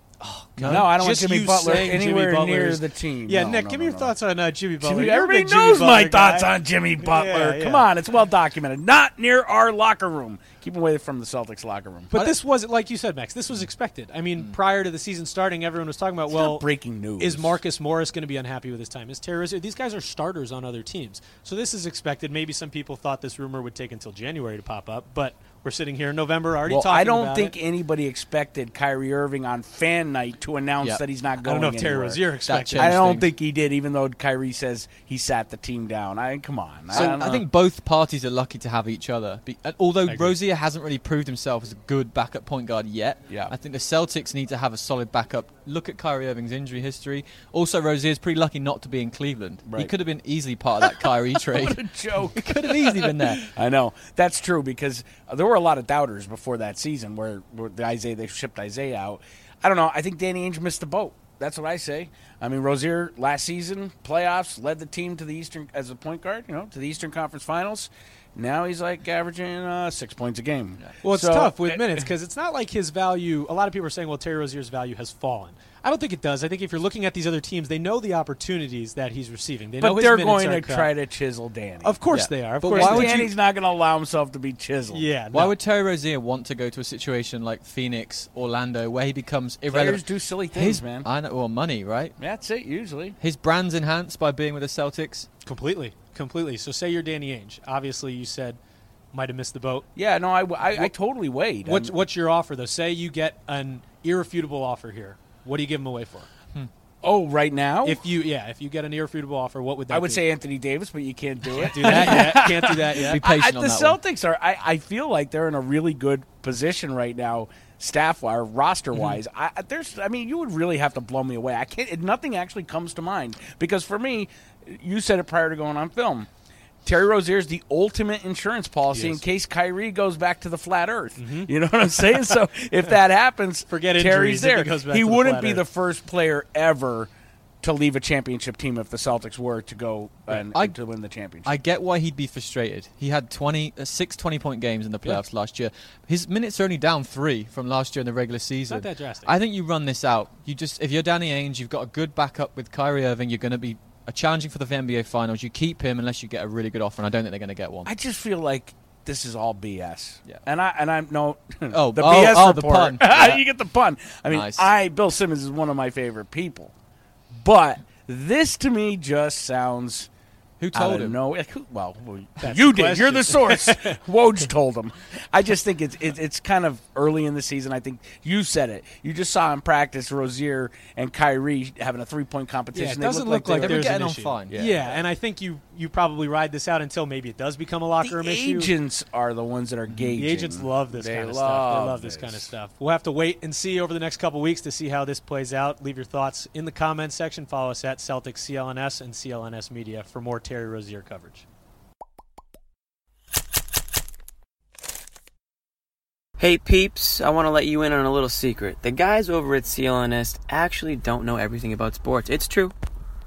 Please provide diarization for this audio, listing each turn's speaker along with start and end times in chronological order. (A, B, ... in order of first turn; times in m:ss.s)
0:00.2-0:07.9 A
0:00.6-0:00.9 B
0:00.7-0:04.1 C
0:04.8-0:12.1 C
0:12.1-0:16.6 A
0:16.3-0:17.6 C
0:17.2-0:27.6 A
0:26.7-0:37.5 C
0:31.4-0:33.1 A
0:32.5-0:33.3 B
0:36.9-0:53.5 B
0:40.1-0:40.4 A
0:49.6-0:49.9 C
0:51.5-1:11.6 C
1:11.0-1:20.9 A
1:19.8-1:25.1 C
1:21.8-1:23.3 A
1:22.2-1:23.3 B
1:24.9-1:25.6 A
1:25.3-1:32.2 B
1:29.7-1:31.1 C
1:32.2-1:33.2 C
1:33.2-1:35.3 B
1:35.4-1:38.6 A
1:39.1-1:39.9 A
1:40.0-1:42.0 C
1:41.6-1:46.3 A
1:47.0-1:48.0 C
1:47.8-1:50.2 A
1:49.9-2:06.3 C
1:51.6-1:53.2 A
1:51.8-1:52.4 B
1:53.0-1:54.0 B
2:06.8-2:17.1 C
2:08.9-2:09.2 A
2:11.2-2:11.5 A
2:13.7-2:15.6 A
2:17.6-2:21.5 C
2:21.4-2:37.9 B
2:28.7-2:29.3 A
2:37.9-2:46.7 C
2:41.7-2:43.4 B
2:44.3-2:44.7 B
2:47.3-2:50.1 C
2:50.6-2:51.2 B
2:50.7-3:04.0 C
2:52.4-2:53.9 A
3:02.7-3:08.7 A
3:03.6-3:04.6 B
3:04.5-3:05.0 C
3:08.0-3:12.5 C
3:10.1-3:21.4 A
3:26.4-3:32.7 D